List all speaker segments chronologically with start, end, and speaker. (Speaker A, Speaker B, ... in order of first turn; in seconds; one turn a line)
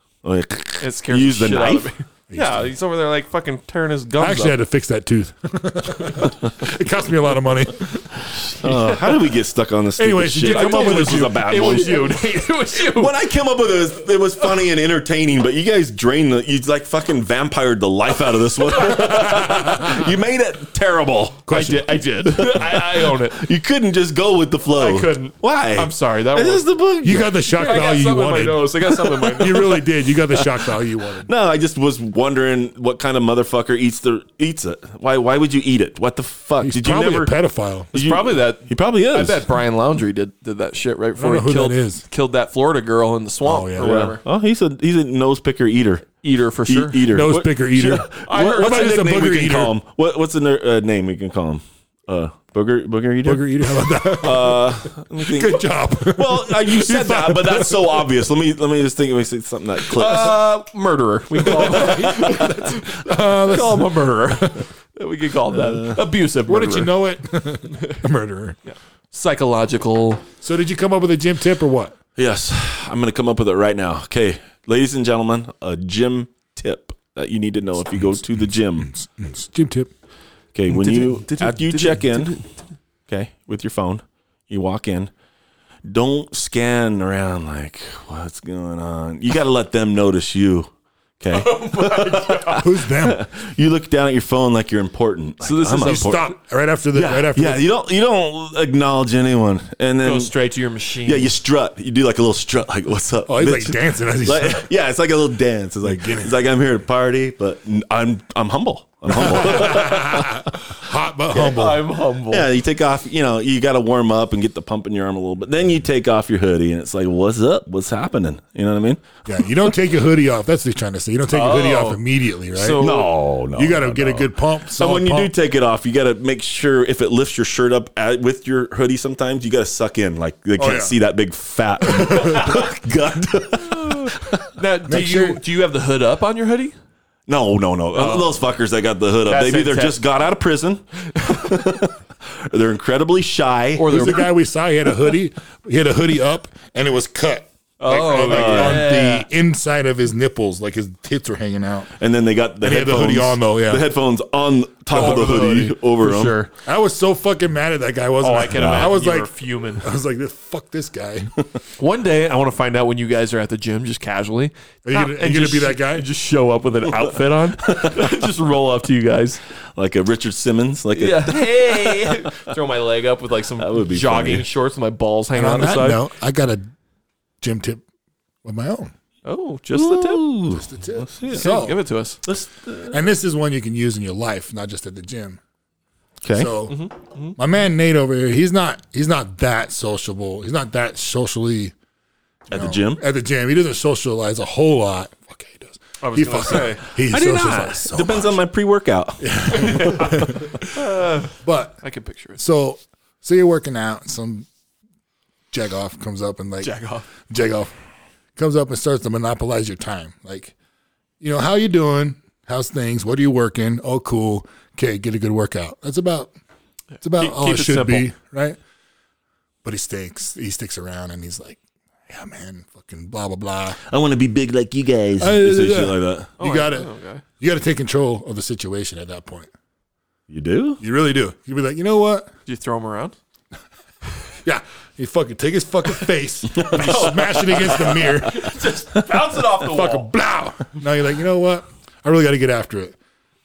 Speaker A: 0.2-1.9
Speaker B: 0.8-4.6
Speaker C: 2.3-2.7
Speaker C: 4.2-8.3
Speaker A: 8.4-12.1
Speaker C: 10.0-12.1
Speaker B: 10.4-13.1
Speaker A: 12.7-21.5
Speaker B: 18.8-19.5
Speaker C: 19.6-19.9
Speaker C: 21.5-21.9
Speaker B: 21.5-23.4
Speaker A: 22.3-27.9
Speaker B: 24.7-26.6
Speaker C: 27.0-31.3
Speaker B: 27.5-29.8
Speaker A: 29.1-30.7
Speaker A: 31.2-37.4
Speaker C: 36.6-37.9
Speaker A: 37.9-39.5
Speaker B: 37.9-44.2
Speaker C: 41.2-42.0
Speaker C: 43.5-44.1
Speaker A: 43.8-46.1
Speaker B: 46.2-47.1
Speaker A: 46.7-60.5
Speaker C: 47.1-49.8
Speaker B: 48.2-49.0
Speaker C: 53.2-58.1
Speaker B: 59.9-67.0
Speaker C: 61.5-64.6
Speaker A: 61.7-62.0
Speaker A: 65.5-66.0
Speaker C: 66.5-68.6
Speaker B: 68.7-70.2
Speaker C: 70.4-72.0
Speaker A: 72.2-78.9
Speaker C: 78.8-79.9
Speaker A: 80.5-82.4
Speaker B: 80.7-82.5
Speaker A: 83.1-85.1
Speaker A: 85.8-96.3
Speaker B: 91.3-92.7
Speaker C: 92.6-93.3
Speaker B: 95.4-96.2
Speaker C: 95.8-97.6
Speaker A: 96.9-100.3
Speaker B: 100.0-101.3
Speaker A: 101.0-110.5
Speaker C: 103.3-104.7
Speaker C: 105.8-106.3
Speaker C: 109.1-111.8
Speaker B: 109.6-109.9
Speaker B: 111.3-112.5
Speaker A: 112.3-119.0
Speaker C: 119.3-122.8
Speaker B: 121.3-122.0
Speaker B: 122.5-123.1
Speaker A: 122.8-134.5
Speaker C: 123.5-125.3
Speaker C: 130.6-131.0
Speaker B: 132.0-132.7
Speaker C: 132.0-132.4
Speaker B: 133.9-136.8
Speaker C: 134.9-135.4
Speaker A: 137.3-144.2
Speaker B: 137.9-138.3
Speaker B: 139.3-140.0
Speaker B: 143.8-144.3
Speaker C: 143.9-151.9
Speaker B: 147.8-149.3
Speaker A: 148.2-148.9
Speaker A: 152.0-156.4
Speaker C: 152.6-153.9
Speaker C: 154.9-155.7
Speaker B: 154.9-156.5
Speaker C: 156.7-161.3
Speaker B: 158.2-159.9
Speaker A: 158.5-158.9
Speaker B: 161.8-169.4
Speaker C: 164.8-166.1
Speaker A: 167.7-168.3
Speaker A: 169.8-172.3
Speaker B: 170.9-176.0
Speaker A: 173.6-174.5
Speaker C: 175.3-176.7
Speaker C: 177.4-177.8
Speaker C: 178.4-178.9
Speaker B: 179.2-180.3
Speaker A: 179.7-181.7
Speaker C: 180.6-181.8
Speaker B: 181.3-182.2
Speaker A: 182.2-183.1
Speaker C: 182.9-185.4
Speaker A: 186.2-186.6
Speaker C: 186.3-186.8
Speaker B: 186.7-187.4
Speaker C: 187.4-191.7
Speaker A: 192.5-193.0
Speaker C: 192.5-198.4
Speaker B: 196.0-196.8
Speaker A: 197.0-200.3
Speaker C: 199.2-200.7
Speaker B: 199.5-202.4
Speaker C: 201.4-201.8
Speaker C: 202.4-204.5
Speaker C: 205.5-207.7
Speaker B: 206.6-207.1
Speaker C: 208.4-210.5
Speaker C: 211.2-216.3
Speaker B: 217.0-218.1
Speaker C: 217.0-218.6
Speaker C: 219.6-223.8
Speaker A: 223.9-226.3
Speaker C: 225.2-229.5
Speaker B: 226.4-227.2
Speaker A: 230.3-230.8
Speaker C: 230.8-232.3
Speaker B: 232.5-233.2
Speaker C: 234.4-238.5
Speaker A: 236.6-237.1
Speaker B: 236.7-240.1
Speaker C: 239.6-243.0